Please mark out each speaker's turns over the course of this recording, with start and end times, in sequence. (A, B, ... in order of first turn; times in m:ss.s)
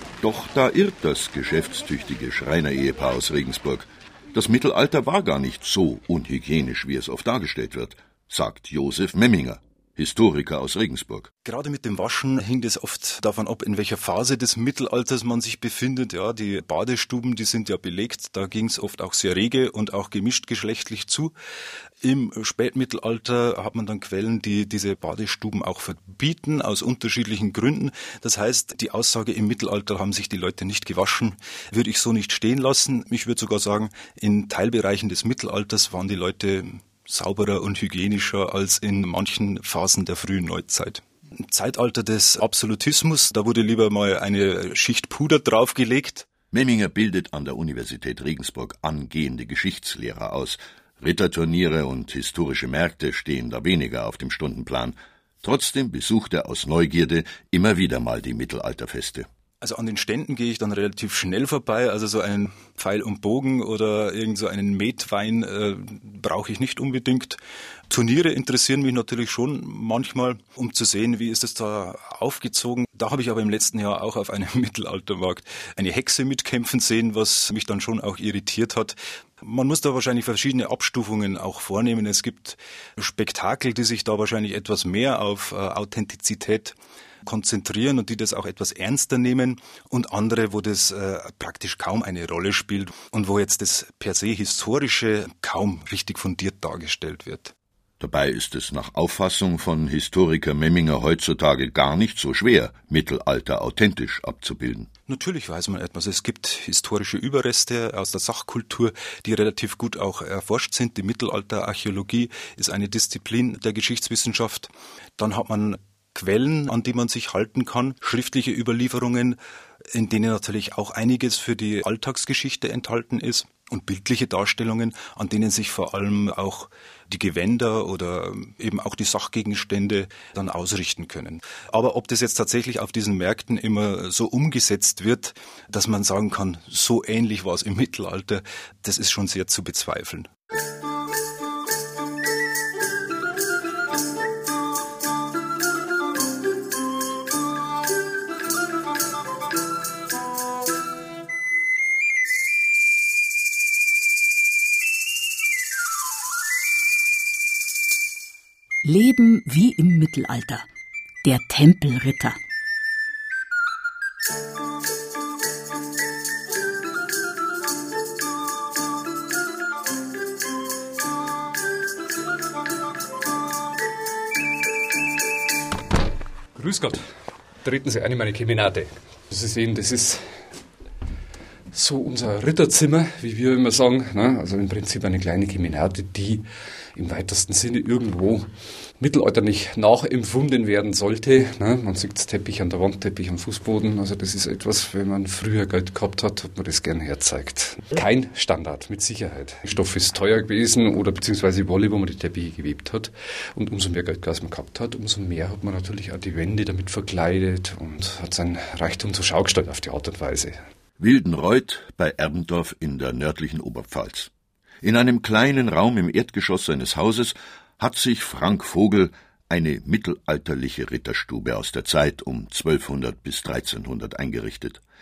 0:00.2-0:11.3 A
0:11.4-0:21.3 B
0:22.0-0:46.2 B
0:46.5-0:59.3 A
0:59.6-1:07.4 B
1:07.9-1:26.7 B
1:27.2-1:37.5 B
1:38.0-1:44.9 A
1:45.1-1:59.4 B
1:59.9-2:20.3 B
2:38.8-2:40.6 C
2:41.2-2:42.4 C
2:56.5-2:57.0 D
2:57.6-3:00.3 D
3:01.7-3:06.4 D
3:07.0-3:08.5 D
3:09.0-3:30.6 D
3:31.0-3:34.3 A
3:34.8-3:44.8 A